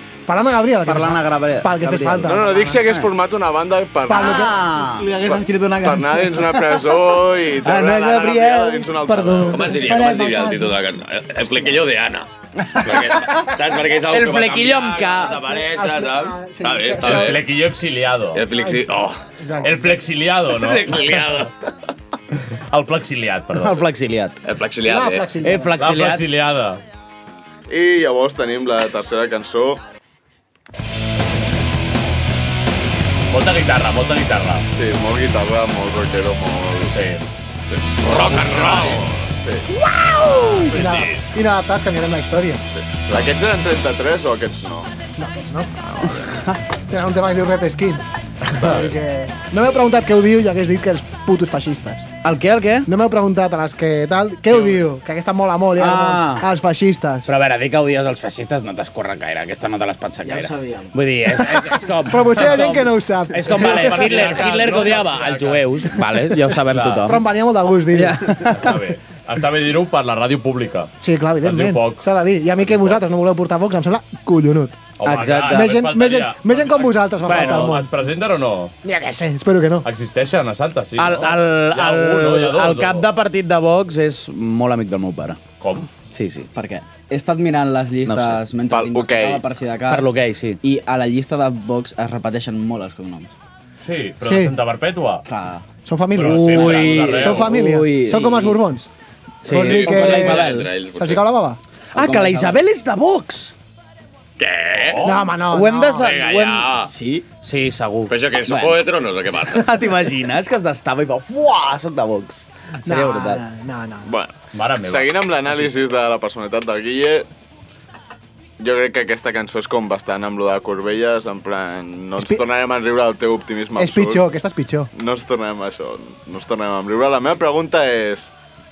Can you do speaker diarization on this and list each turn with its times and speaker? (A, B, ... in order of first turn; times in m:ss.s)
0:00.3-0:02.8 A
0:00.8-0:03.1 B
0:02.2-0:04.6 C
0:04.0-0:04.6 A
0:04.1-0:05.1 B
0:04.4-0:06.5 D
0:05.2-0:09.9 C
0:06.5-0:06.8 B
0:07.6-0:10.2 B
0:09.5-0:17.4 E
0:09.8-0:10.8 A
0:12.6-0:13.5 B
0:14.1-0:15.4 B
0:15.3-0:17.4 A
0:17.0-0:18.5 F
0:18.3-0:19.2 E
0:18.5-0:20.0 A
0:19.6-0:21.5 F
0:20.5-0:21.5 E
0:22.7-0:23.9 F
0:23.6-0:24.4 B
0:24.4-0:25.3 E
0:24.8-0:25.8 A
0:25.4-0:26.2 B
0:25.8-0:26.8 F
0:27.7-0:29.8 C
0:33.3-0:34.6 F
0:34.7-0:37.0 C
0:36.9-0:37.2 F
0:37.6-0:39.7 C
0:38.0-0:39.3 E
0:40.2-0:42.6 A
0:40.3-0:40.6 B
0:40.5-0:41.2 E
0:42.7-0:44.9 C
0:45.2-0:45.7 A
0:45.8-0:46.5 C
0:46.0-0:46.6 B
0:46.9-0:52.1 A
0:48.5-0:48.8 F
0:52.2-0:52.9 B
0:52.9-0:57.3 A
0:55.8-0:56.5 B
0:57.3-1:07.2 B
1:00.2-1:01.0 D
1:01.7-1:04.3 A
1:03.5-1:07.2 F
1:07.0-1:08.7 A
1:07.9-1:08.8 B
1:08.4-1:12.1 F
1:11.0-1:14.8 A
1:12.6-1:13.0 F
1:15.0-1:18.7 F
1:15.0-1:15.8 B
1:15.4-1:17.9 A
1:17.2-1:17.7 B
1:18.8-1:19.9 A
1:19.8-1:23.1 F
1:21.0-1:25.4 B
1:25.6-1:25.9 F
1:26.1-1:26.5 B
1:26.5-1:33.3 D
1:28.0-1:28.4 B
1:28.7-1:29.4 C
1:29.9-1:30.6 B
1:33.8-1:35.2 F
1:34.2-1:34.6 A
1:35.3-1:35.6 D
1:35.8-1:38.9 A
1:36.1-1:37.5 F
1:36.2-1:38.6 B
1:39.4-1:40.7 B
1:39.4-1:41.6 A
1:39.6-1:41.3 E
1:40.2-1:40.6 D
1:42.0-1:42.6 D
1:42.0-1:43.5 B
1:44.4-1:45.1 E
1:44.7-1:45.3 F
1:45.0-1:46.2 A
1:45.4-1:46.8 B
1:45.8-1:46.9 E
1:46.8-1:47.2 D
1:47.4-1:53.4 B
1:48.1-1:49.9 E
1:52.8-1:54.2 A
1:54.0-1:57.3 C
1:54.5-1:55.2 F
1:58.6-2:04.2 C
2:02.2-2:02.4 A
2:03.8-2:04.9 A
2:04.9-2:08.3 C